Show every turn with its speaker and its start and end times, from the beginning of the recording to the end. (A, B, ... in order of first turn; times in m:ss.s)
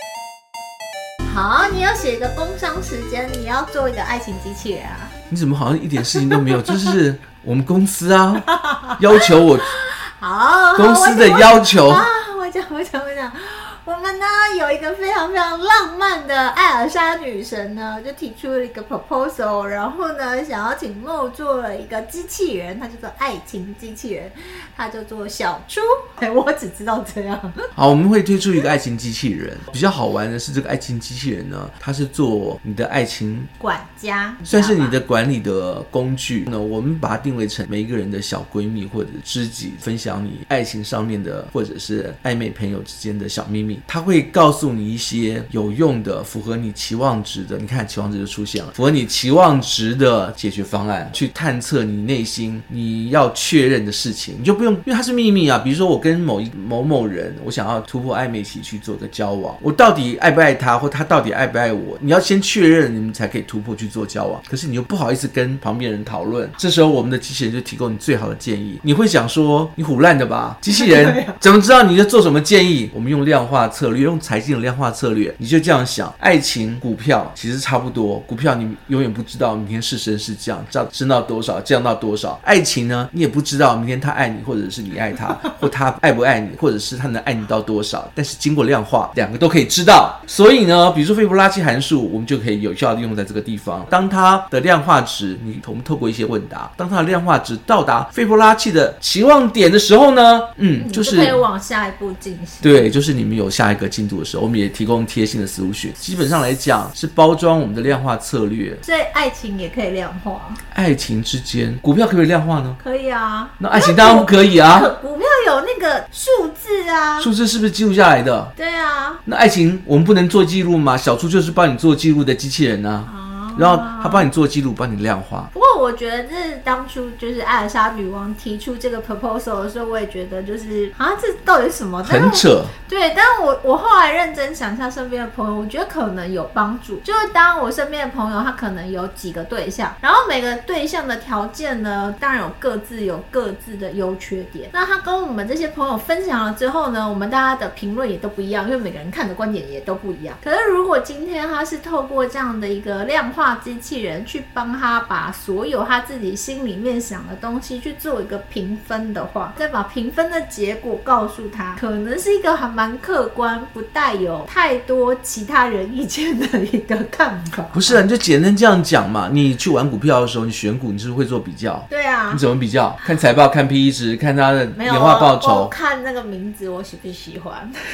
0:01.2-0:05.1 A
0:05.3-0:09.7 B
0:08.4-0:27.7 A
0:10.8-0:12.0 B
0:27.7-0:33.5 B
0:33.6-0:35.0 A
0:34.4-1:41.4 B
1:10.7-1:11.4 A
1:40.8-1:42.9 A
1:42.6-1:48.8 B
1:48.8-1:50.6 A
1:50.7-1:52.8 B
1:52.8-1:57.3 A
1:53.6-1:54.9 B
1:57.2-1:58.5 B
1:58.6-1:59.2 A
1:59.2-2:05.5 B
2:03.0-2:04.3 A
2:05.5-2:48.0 A
2:12.0-2:12.7 B
2:47.7-2:55.7 B
2:51.9-2:52.4 A
2:54.8-2:57.7 A